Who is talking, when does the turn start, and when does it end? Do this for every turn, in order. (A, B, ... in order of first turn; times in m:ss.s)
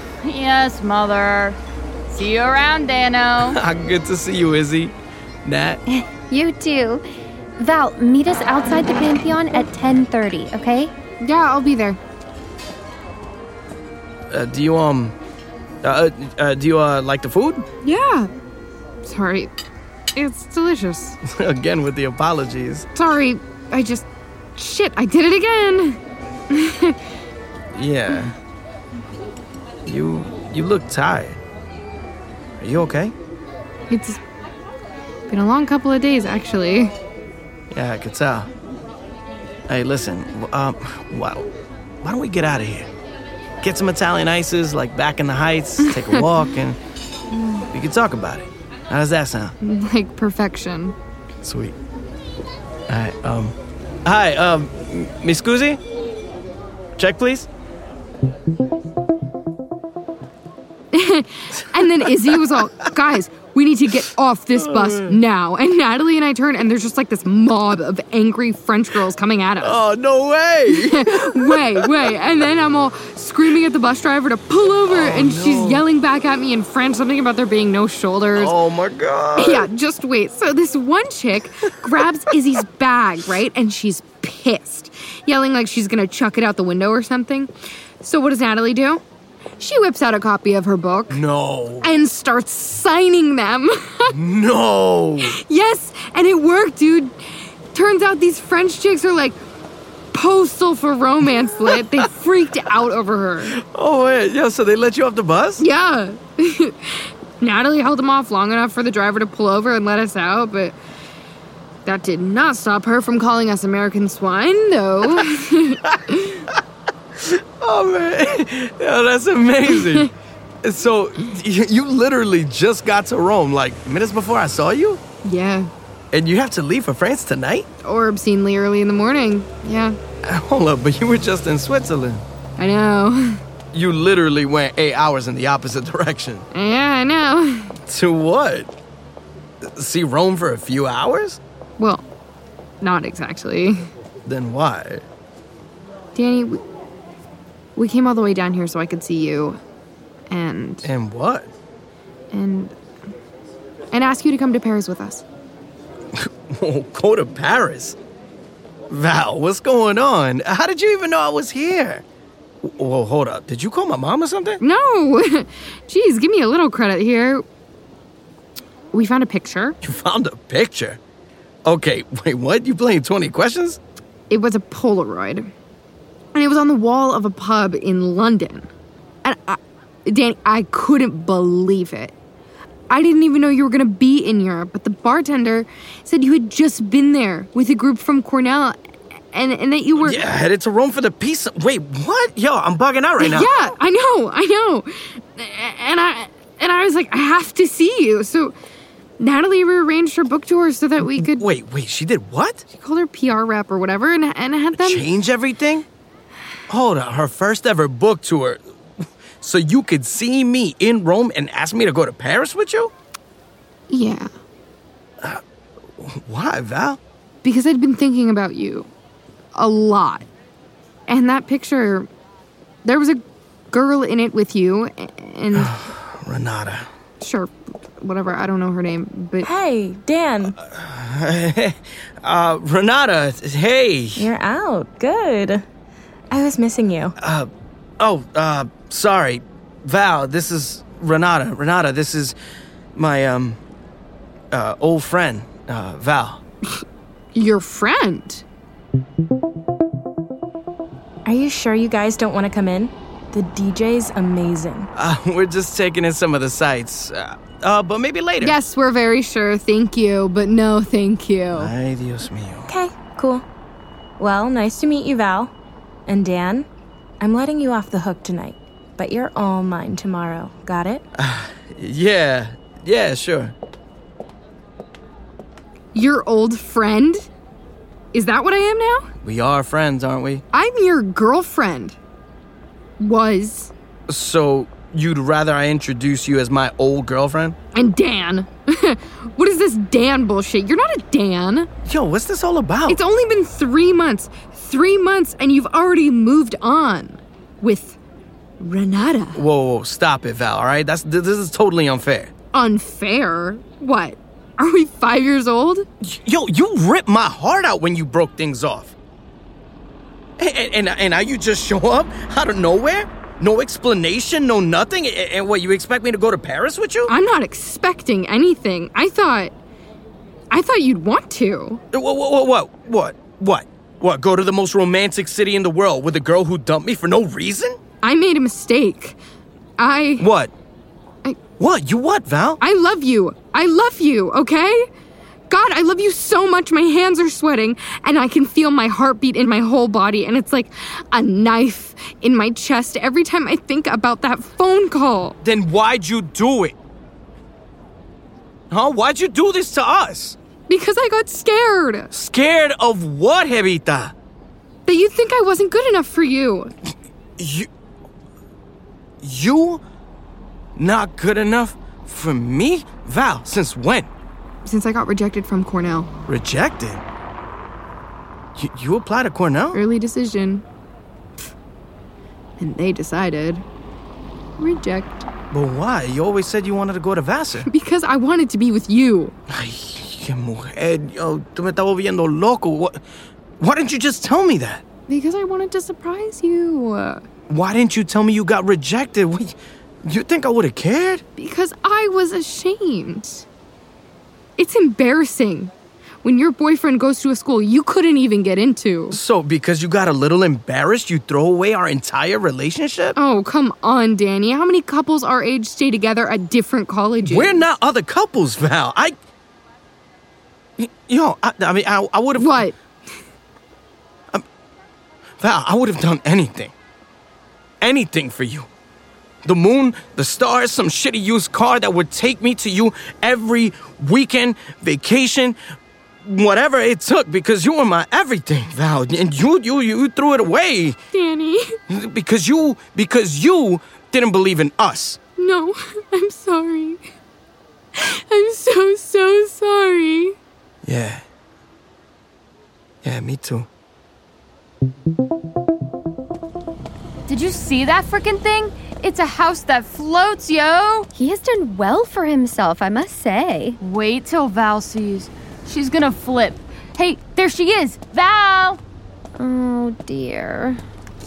0:00.2-0:01.6 A
0:02.1-0:03.6 A
0:03.4-0:05.8 B
0:05.9-0:07.0 C
0:07.6-0:10.9 C
0:11.2-0:12.0 D
0:14.3-0:15.2 B
0:15.8-0:17.6 B
0:17.8-0:18.3 D
0:19.0-0:19.5 D
0:20.1-0:21.2 D
0:21.2-0:22.8 B
0:22.9-0:26.0 D
0:26.5-0:27.0 D
0:27.7-0:28.3 B
0:29.8-0:31.4 B
0:32.6-0:33.1 B
0:33.9-0:34.2 D
0:35.3-0:36.9 D
0:37.7-0:38.5 B
0:39.7-0:41.5 B
0:42.0-0:42.9 B
0:43.6-0:46.8 B
0:47.7-0:49.5 B
0:49.6-0:50.9 D
0:51.4-0:51.7 B
0:52.9-0:55.8 B
0:57.0-0:57.5 B
1:00.9-1:09.8 D
1:01.8-1:02.6 B
1:03.9-1:05.2 B
1:09.6-1:12.1 B
1:10.8-1:18.5 D
1:14.9-1:15.9 B
1:18.3-1:19.7 B
1:19.4-1:29.0 D
1:29.6-1:31.2 D
1:31.1-1:31.9 B
1:31.8-1:34.1 D
1:34.1-1:35.4 B
1:35.3-1:37.2 D
1:37.7-1:39.4 D
1:40.1-1:43.5 D
1:41.2-1:42.1 B
1:43.5-1:45.6 B
1:45.6-1:50.8 D
1:51.8-1:55.7 D
1:57.2-2:00.1 B
2:00.6-2:05.0 B
2:05.2-2:05.7 D
2:06.1-2:07.7 B
2:07.8-2:10.0 D
2:10.2-2:12.2 B
2:12.6-2:13.4 D
2:13.7-2:16.4 B
2:16.5-2:17.7 D
2:17.9-2:18.7 B
2:19.8-2:21.4 B
2:21.8-2:22.0 D
2:22.8-2:23.8 D
2:24.2-2:25.0 B
2:26.1-2:26.6 D
2:27.8-2:29.6 D
2:30.3-2:30.9 D
2:30.8-2:31.5 B
2:32.3-2:32.8 D
2:33.9-2:35.2 D
2:36.2-2:38.0 B
2:38.9-2:42.0 B
2:42.6-2:44.6 B
2:44.6-2:47.4 D
2:48.9-2:49.8 D
2:49.8-2:51.0 B
2:51.6-2:53.8 B
2:54.3-2:55.5 D
2:56.3-2:58.7 D
2:59.2-3:02.1 D
3:02.9-3:08.8 D
3:09.3-3:10.2 D
3:10.0-3:13.5 B
3:13.2-3:18.5 D
3:19.2-3:21.4 D
3:21.2-3:22.6 B
3:22.8-3:25.0 D
3:24.7-3:25.8 B
3:26.7-3:28.6 B
3:29.4-3:32.9 B
3:33.9-3:34.3 D
3:36.0-3:37.0 B
3:37.4-3:38.9 D
3:39.5-3:40.2 D
3:41.1-3:42.1 D
3:42.8-3:45.7 D
3:45.5-3:46.9 B
3:47.2-3:49.5 D
3:49.4-3:50.5 E
3:50.4-3:54.3 B
3:54.2-3:55.6 E
3:56.3-3:57.1 E
3:57.2-4:02.4 B
4:03.0-4:03.6 B
4:04.5-4:06.4 B
4:07.3-4:08.4 D
4:11.2-4:14.9 E
4:14.9-4:18.6 B
4:18.4-4:21.7 D
4:21.5-4:22.7 B
4:22.7-4:23.4 E
4:24.2-4:25.5 E
4:26.1-4:26.7 E
4:27.2-4:31.0 E
4:31.2-4:33.5 B
4:35.9-4:37.2 D
4:38.1-4:39.1 D
4:39.2-4:40.4 B
4:40.5-4:42.0 D
4:43.0-4:43.7 D
4:44.1-4:47.6 B
4:47.7-4:51.7 D
4:51.8-4:53.0 B
4:52.9-4:58.0 D
4:58.6-4:59.4 D
4:59.3-5:02.3 B
5:02.5-5:05.8 D
5:06.0-5:08.9 B
5:10.4-5:17.1 B
5:17.1-5:19.5 D
5:20.5-5:21.8 D
5:21.9-5:27.8 B
5:28.0-5:29.2 D
5:29.8-5:30.2 D
5:30.2-5:30.5 B
5:31.6-5:32.6 B
5:32.6-5:34.9 D
5:35.5-5:45.3 D
5:45.4-5:46.8 B
5:48.7-5:50.4 B
5:50.7-5:52.1 D
5:52.1-5:54.1 B
5:54.8-5:56.7 D
5:57.4-5:57.7 B
5:59.2-5:59.8 B
6:00.8-6:04.1 B
6:04.6-6:06.1 D
6:06.3-6:07.0 B
6:08.6-6:09.8 B
6:09.7-6:10.6 D
6:12.6-6:13.6 D
6:14.6-6:15.2 D
6:15.5-6:17.7 B
6:17.6-6:19.3 D
6:19.5-6:23.0 B
6:23.6-6:24.8 B
6:25.1-6:27.2 D
6:27.5-6:31.2 B
6:31.4-6:33.4 D
6:34.6-6:35.7 D
6:36.2-6:39.2 D
6:39.1-6:43.2 B
6:43.2-6:47.6 D
6:47.2-6:49.1 B
6:50.8-6:52.7 B
6:52.4-6:52.7 D
6:55.4-6:56.7 B
6:57.8-6:58.7 B
6:59.4-7:05.6 B
7:06.2-7:11.0 B
7:11.1-7:11.7 D
7:11.9-7:15.2 B
7:15.4-7:17.0 D
7:17.9-7:20.4 D
7:20.8-7:21.2 B
7:23.0-7:23.7 B
7:27.3-7:31.1 A
7:31.1-7:33.8 C
7:33.8-7:38.8 A
7:39.4-7:40.8 C